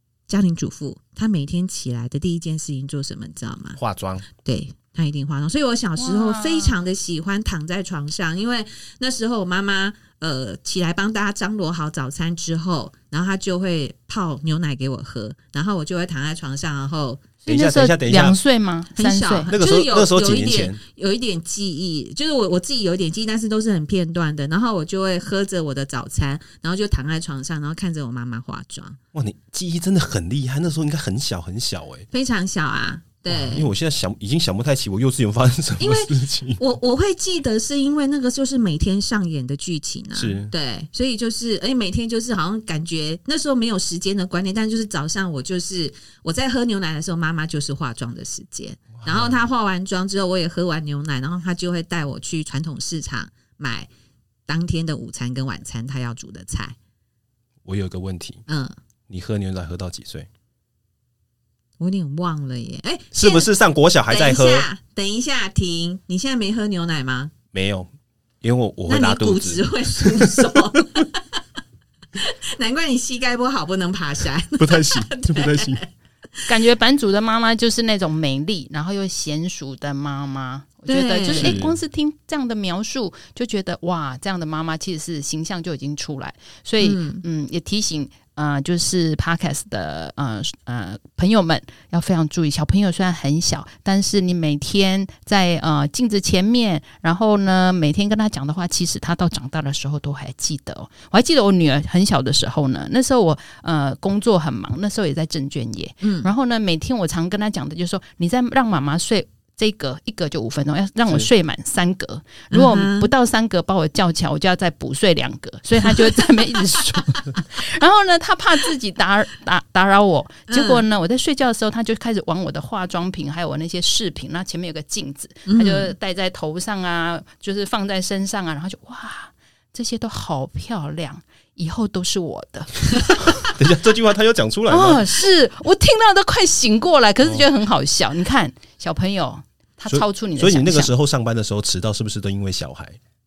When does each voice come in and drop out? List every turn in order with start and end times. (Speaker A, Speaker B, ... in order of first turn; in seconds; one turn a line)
Speaker A: 0.3-3.8
Speaker B: 3.8-4.3
Speaker A: 4.4-17.3
Speaker C: 6.0-6.8
Speaker B: 17.4-18.4
Speaker C: 17.4-19.5
Speaker A: 18.9-29.0
Speaker B: 19.5-20.8
Speaker B: 29.1-32.1
Speaker A: 32.1-33.7
Speaker B: 33.3-36.6
Speaker A: 35.8-53.9
Speaker B: 40.1-40.5
Speaker B: 48.9-49.4
Speaker A: 54.5-56.8
Speaker B: 57.6-58.4
Speaker A: 58.5-58.7
Speaker B: 59.1-60.3
Speaker A: 61.8-63.5
Speaker B: 63.1-64.7
Speaker A: 64.1-67.3
Speaker B: 67.5-67.9
Speaker B: 68.4-71.0
Speaker A: 68.9-71.2
Speaker A: 72.2-75.8
Speaker B: 74.6-75.8
Speaker C: 76.5-133.5
Speaker A: 80.9-81.6
Speaker B: 81.3-81.8
Speaker A: 86.8-87.2
Speaker A: 106.0-106.3
Speaker A: 112.5-113.1
Speaker A: 120.5-120.8
Speaker A: 125.5-125.9
Speaker B: 133.4-135.1
Speaker C: 134.7-140.9
Speaker B: 139.9-143.0